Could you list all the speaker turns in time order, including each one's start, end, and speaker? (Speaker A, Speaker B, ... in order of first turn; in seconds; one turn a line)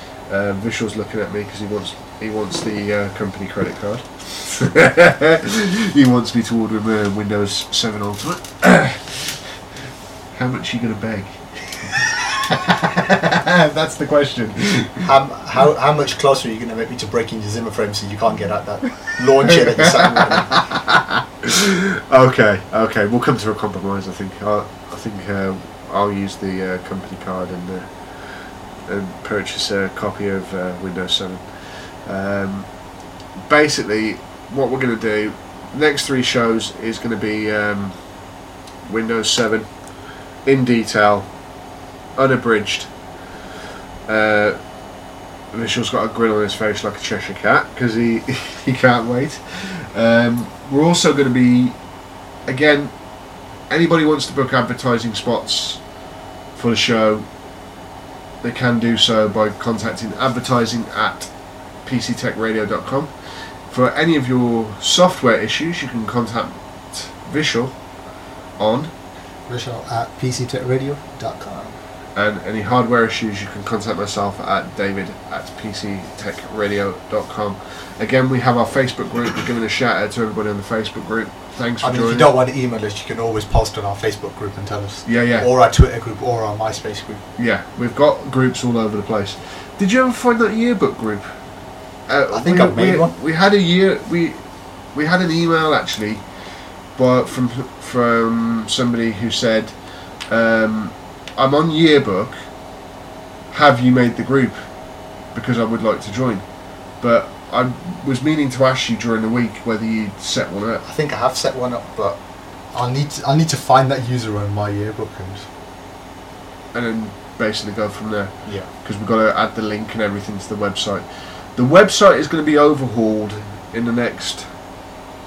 Speaker A: 0.3-9.4
Speaker A: 10.3-15.1
Speaker B: 15.1-20.5
Speaker A: 19.8-32.7
Speaker A: 33.4-38.0
Speaker A: 38.9-39.7
Speaker A: 40.4-41.3
Speaker A: 42.1-42.9
Speaker A: 44.1-44.6
Speaker A: 45.5-51.8
Speaker A: 52.5-52.9
Speaker A: 53.7-55.8
Speaker A: 56.5-57.3
Speaker A: 58.4-61.3
Speaker A: 61.8-67.7
Speaker A: 68.6-68.9
Speaker B: 69.5-71.8
Speaker A: 72.2-82.3
Speaker B: 81.8-87.2
Speaker A: 85.0-85.5
Speaker A: 87.4-91.4
Speaker A: 92.1-94.4
Speaker B: 92.3-93.1
Speaker A: 94.9-96.3
Speaker A: 96.9-102.4
Speaker A: 103.5-104.7
Speaker A: 105.3-110.8
Speaker B: 110.8-112.2
Speaker B: 112.7-115.5
Speaker A: 116.7-124.5